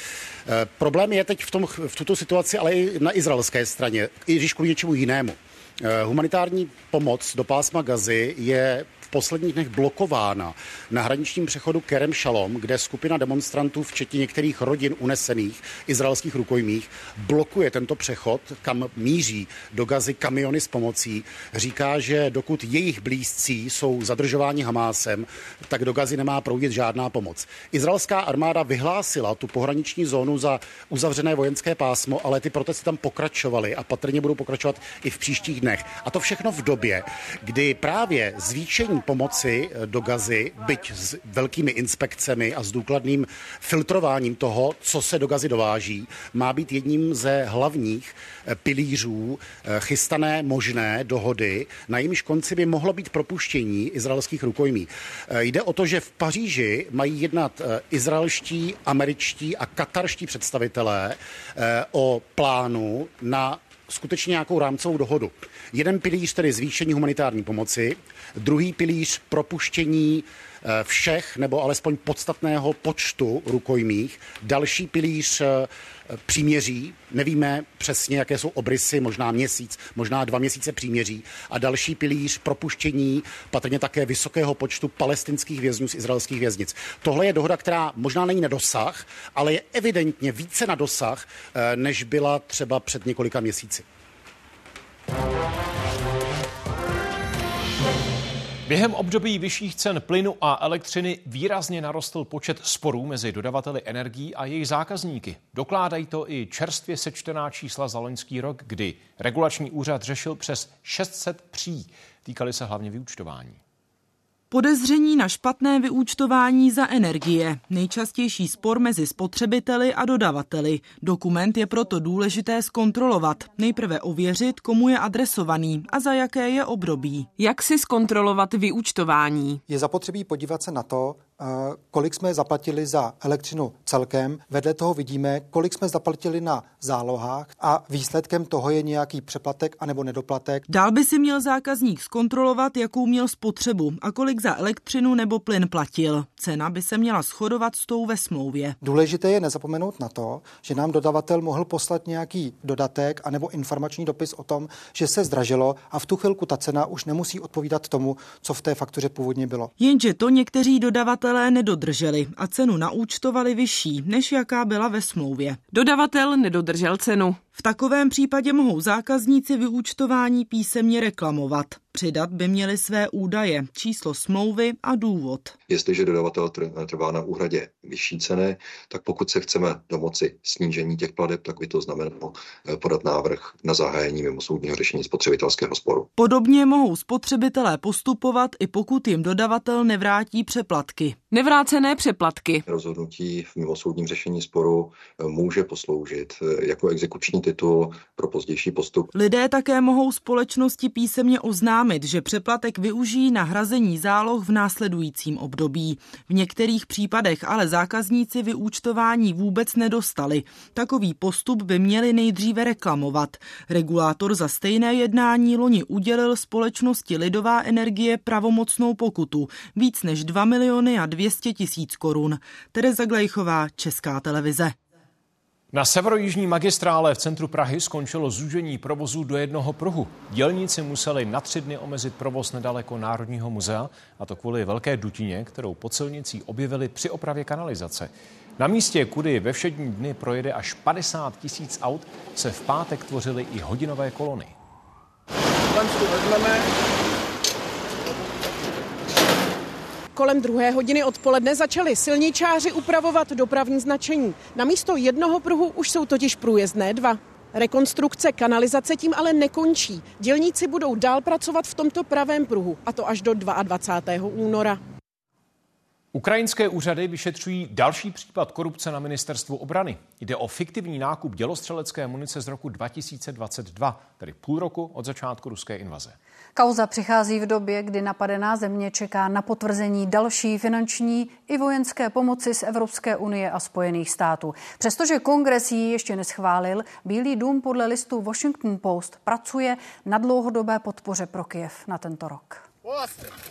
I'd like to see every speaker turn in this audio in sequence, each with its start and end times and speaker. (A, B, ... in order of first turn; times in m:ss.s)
0:00.5-1:33.9 A
1:38.7-1:53.6 B
1:54.5-2:07.3 C
2:09.7-2:20.6 D
2:20.7-2:28.8 C
2:28.8-2:39.7 D
2:39.8-2:45.6 C
2:47.6-2:55.6 C
2:55.7-3:06.1 E
3:06.2-3:11.2 C
3:12.7-3:19.1 E
3:19.1-3:44.7 C
3:45.7-4:04.6 B
4:10.2-4:24.8 F
4:26.1-4:36.2 B
4:36.6-4:52.6 G